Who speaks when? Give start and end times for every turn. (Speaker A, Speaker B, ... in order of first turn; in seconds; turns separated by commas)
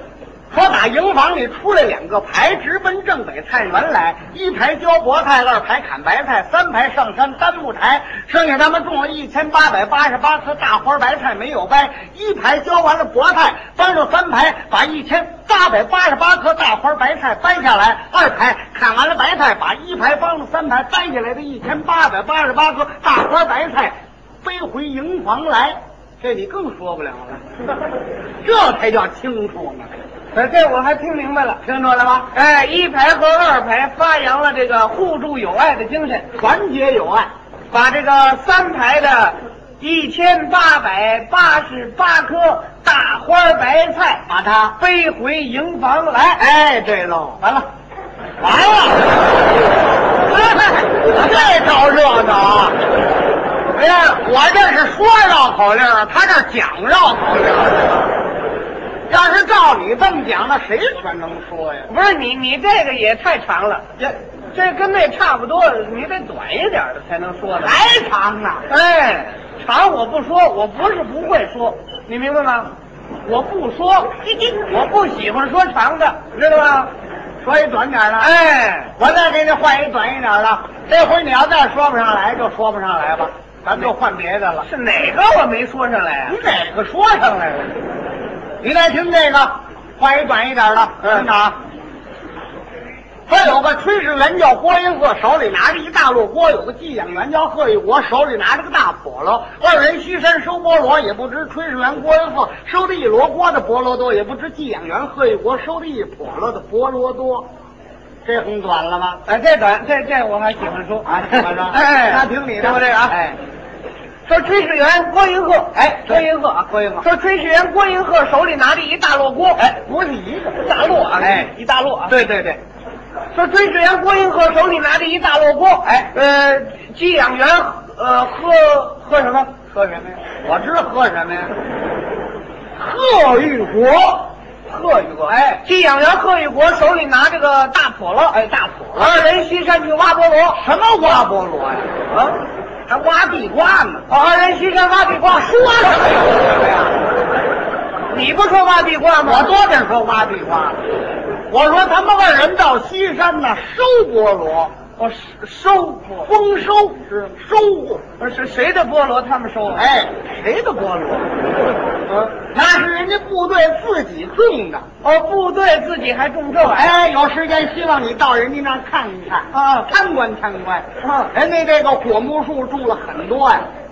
Speaker A: 0.5-27.4, Speaker A: 28.4-29.9, Speaker B: 30.3-31.7, Speaker A: 31.6-32.3, Speaker B: 32.2-36.3, Speaker A: 36.3-37.3, Speaker B: 37.7-44.2, Speaker A: 44.3-44.8, Speaker B: 44.8-46.4, Speaker A: 46.4-47.4, Speaker A: 48.4-49.2, Speaker B: 50.3-50.8, Speaker A: 50.8-52.8, Speaker B: 53.8-54.1, Speaker A: 53.9-58.1, Speaker A: 59.1-61.9, Speaker B: 61.9-67.8, Speaker A: 67.6-68.7, Speaker B: 68.7-72.7, Speaker B: 73.2-76.9, Speaker A: 77.4-78.3, Speaker B: 78.2-78.9, Speaker A: 79.0-84.7, Speaker B: 84.6-86.4, Speaker A: 86.3-87.8, Speaker A: 88.6-91.6, Speaker A: 93.3-107.5, Speaker A: 108.2-109.2, Speaker B: 109.3-113.2, Speaker A: 111.1-113.4, Speaker B: 114.3-119.6, Speaker A: 115.8-117.1, Speaker A: 119.6-120.7, Speaker B: 120.6-122.2, Speaker A: 121.2-121.5, Speaker A: 122.1-122.6, Speaker B: 123.3-129.6, Speaker A: 125.8-126.1, Speaker A: 129.7-131.5, Speaker A: 132.8-134.3, Speaker B: 134.7-138.4, Speaker A: 138.3-139.1, Speaker B: 138.9-140.6, Speaker A: 140.6-142.0, Speaker B: 142.1-142.4, Speaker A: 142.9-144.1, Speaker B: 144.1-146.0, Speaker A: 145.3-146.9, Speaker B: 148.1-149.6, Speaker A: 149.2-150.8, Speaker A: 151.5-154.7, Speaker B: 155.0-156.3, Speaker A: 156.2-158.0, Speaker B: 158.2-159.9, Speaker A: 159.8-161.4, Speaker B: 162.1-162.3, Speaker A: 162.4-164.8, Speaker B: 165.0-166.9, Speaker A: 166.7-173.7, Speaker B: 169.5-169.9, Speaker B: 171.0-171.3